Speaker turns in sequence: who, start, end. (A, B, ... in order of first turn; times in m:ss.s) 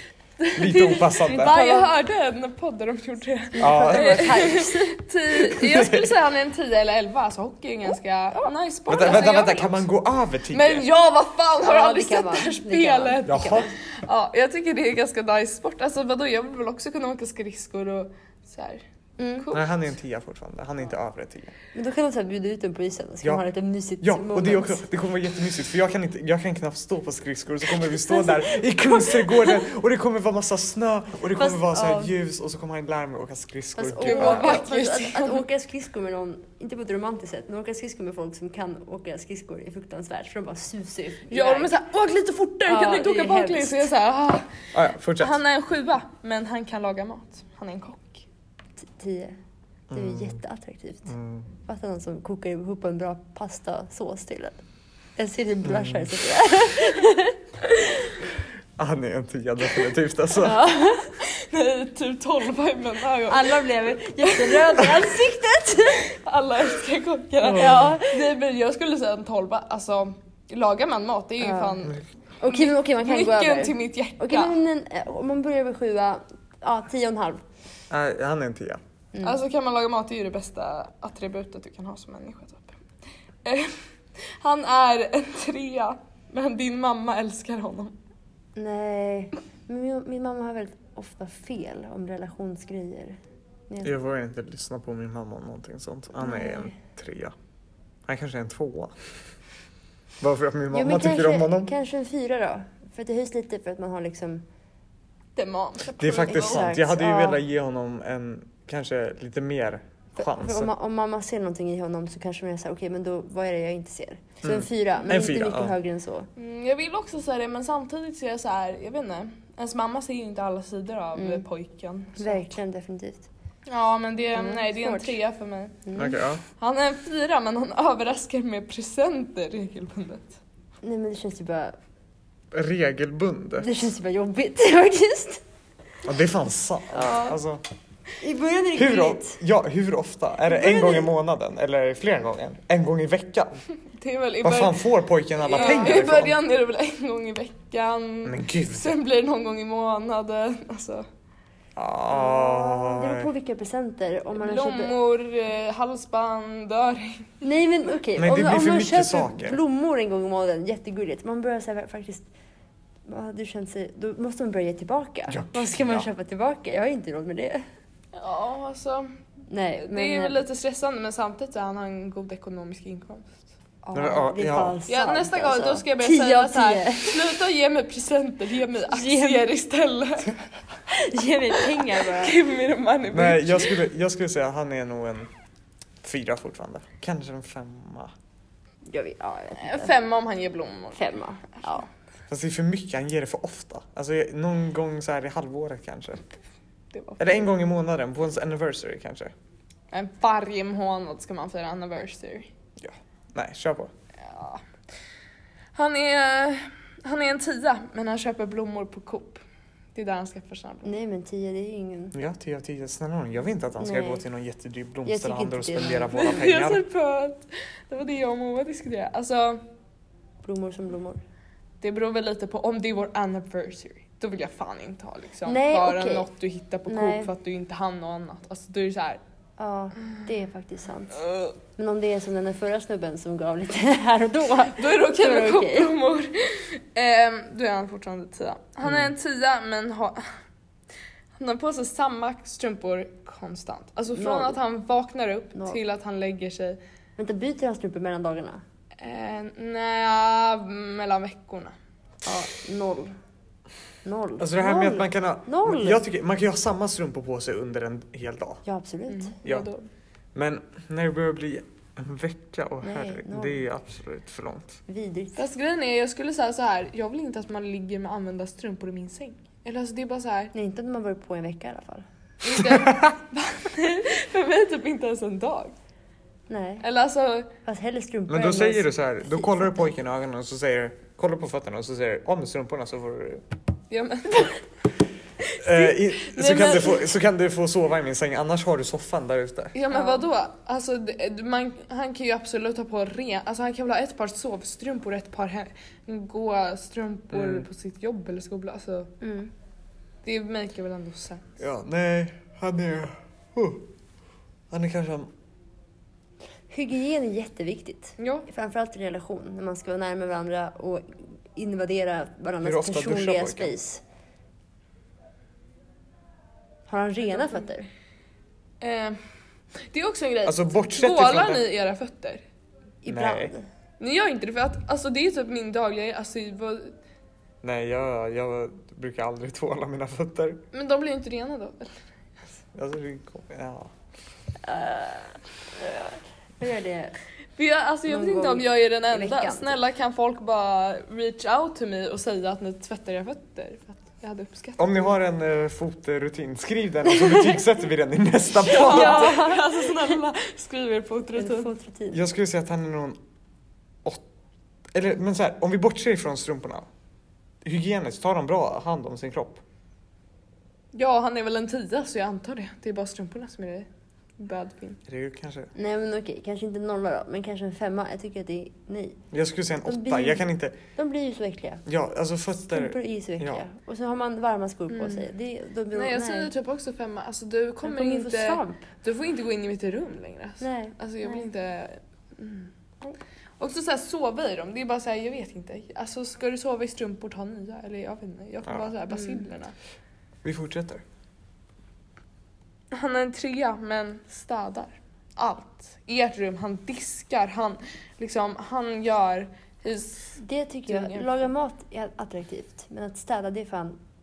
0:00.4-0:09.9 A
0:00.5-0:01.6 B
0:01.4-0:01.9 C
0:03.5-0:05.0 C
0:03.6-0:04.6 B
0:05.5-0:06.1 B
0:08.9-0:10.8 B
0:10.5-0:19.8 A
0:11.6-0:13.7 C
0:13.2-0:13.7 B
0:19.2-0:19.5 C
0:19.5-0:21.5 B
0:21.7-0:24.8 C
0:24.0-0:34.6 B
0:27.8-0:29.6 C
0:31.3-0:32.2 C
0:33.7-0:41.8 C
0:34.0-0:35.4 A
0:41.3-0:44.5 A
0:42.6-0:43.9 C
0:44.7-0:45.4 B
0:45.2-0:48.2 A
0:48.8-0:49.4 C
0:49.9-0:50.4 B
0:49.9-0:51.1 C
0:51.1-0:51.5 B
0:51.6-0:54.6 C
0:55.2-0:57.4 C
0:55.6-0:56.1 B
0:58.8-1:00.6 B
1:00.3-1:01.1 C
1:01.2-1:04.9 A
1:03.3-1:06.1 C
1:05.9-1:14.6 A
1:07.4-1:08.0 B
1:07.4-1:08.3 C
1:11.4-1:11.8 C
1:12.4-1:17.4 C
1:17.9-1:18.8 B
1:19.1-1:19.4 C
1:19.2-1:22.8 A
1:23.4-1:23.8 A
1:24.4-1:28.0 A
1:28.6-1:33.9 C
1:33.8-1:37.3 B
1:36.2-1:36.7 C
1:38.1-1:38.9 B
1:40.2-1:41.7 B
1:40.7-1:44.4 C
1:45.4-1:46.7 A
1:46.0-1:50.7 B
1:46.3-1:47.4 C
1:50.2-1:56.3 C
1:54.4-1:55.7 B
1:56.4-2:02.5 A
2:01.1-2:01.4 C
2:02.2-2:03.3 C
2:03.7-2:05.8 A
2:04.3-2:05.2 C
2:05.8-2:06.2 C
2:06.0-2:06.4 B
2:06.6-2:10.4 A
2:10.8-2:11.8 C
2:12.5-2:13.8 B
2:13.6-2:15.4 C
2:16.0-2:17.6 B
2:16.9-2:17.4 C
2:18.2-2:19.4 C
2:18.7-2:23.6 B
2:20.6-2:21.0 C
2:23.9-2:24.9 A
2:24.4-2:26.4 B
2:25.4-2:31.0 A
2:25.5-2:26.0 C
2:28.2-2:29.0 B
2:31.8-2:33.3 B
2:32.1-2:35.0 C
2:34.4-2:37.4 A
2:37.4-2:42.3 C
2:38.2-2:39.6 B
2:43.0-2:47.6 C
2:45.3-2:46.1 B
2:48.1-2:49.1 A
2:49.5-2:50.4 C
2:49.8-2:54.3 A
2:53.9-2:54.8 B
2:53.9-2:57.3 C
2:54.8-3:00.3 A
2:58.8-2:59.4 C
3:00.9-3:02.4 C
3:01.8-3:03.8 A
3:03.1-3:05.3 B
3:06.0-3:08.1 B
3:08.8-3:09.9 C
3:09.6-3:11.8 A
3:10.9-3:11.8 C
3:12.3-3:16.2 B
3:16.9-3:17.3 A
3:17.2-3:19.3 B
3:19.9-3:22.5 A
3:22.8-3:23.9 B
3:24.2-3:24.6 A
3:25.7-3:29.4 A
3:29.9-3:30.9 A
3:30.8-3:32.1 C
3:32.1-3:36.8 B
3:33.8-3:34.2 C
3:35.0-3:36.1 C
3:36.1-3:39.6 A
3:40.4-3:41.2 C
3:41.8-3:49.2 A
3:45.4-3:46.3 C
3:46.9-3:47.3 C
3:49.6-3:51.2 C
3:51.1-3:51.5 A
3:51.8-3:55.9 C
3:54.7-4:00.2 A
4:01.4-4:06.8 A
4:04.1-4:04.6 C
4:07.2-4:08.6 C
4:09.0-4:11.7 A
4:12.2-4:13.1 C
4:14.0-4:16.0 C
4:14.4-4:18.6 B
4:18.6-4:19.3 C
4:19.1-4:19.9 A
4:20.3-4:24.8 B
4:22.8-4:23.6 C
4:24.9-4:25.4 C
4:25.4-4:30.5 A
4:30.5-4:32.0 C
4:32.4-4:35.7 A
4:32.6-4:33.1 B
4:36.5-4:36.8 C
4:36.8-4:37.5 A
4:37.6-4:39.9 C
4:38.3-4:43.4 B
4:43.9-4:44.6 A
4:45.4-4:47.0 A
4:45.6-4:49.7 B
4:49.7-4:59.1 A
4:49.9-4:50.2 C
4:57.3-4:57.6 B
4:59.2-4:59.5 C
5:00.2-5:01.5 A
5:01.6-5:03.9 B
5:04.7-5:05.3 B
5:06.7-5:14.0 C
5:08.2-5:08.5 A
5:12.6-5:13.7 B
5:16.9-5:17.9 C
5:18.8-5:19.2 A
5:19.7-5:22.4 A
5:20.4-5:21.7 B
5:23.0-5:23.6 C
5:23.1-5:23.5 B
5:24.0-5:27.0 A
5:27.6-5:30.6 B
5:30.7-5:32.0 A
5:32.7-5:33.9 B
5:34.6-5:37.2 C
5:37.6-5:45.1 A
5:38.1-5:39.8 C
5:44.8-5:49.4 B
5:47.0-5:47.6 C
5:48.6-5:51.7 A
5:48.7-5:50.2 C
5:51.4-5:52.2 C
5:52.1-5:53.2 B
5:54.9-5:56.9 B
5:57.6-5:59.6 B
6:00.9-6:03.9 A
6:04.4-6:05.0 A
6:05.1-6:05.7 B
6:05.7-6:09.2 C
6:09.3-6:10.8 B
6:09.8-6:11.8 C
6:11.8-6:13.6 B
6:12.7-6:16.5 C
6:14.9-6:15.3 A
6:15.9-6:22.7 A
6:17.8-6:18.9 C
6:20.6-6:21.4 C
6:23.6-6:29.7 A
6:29.1-6:29.4 C
6:30.4-6:31.0 B
6:32.9-6:41.4 A
6:40.4-6:44.0 C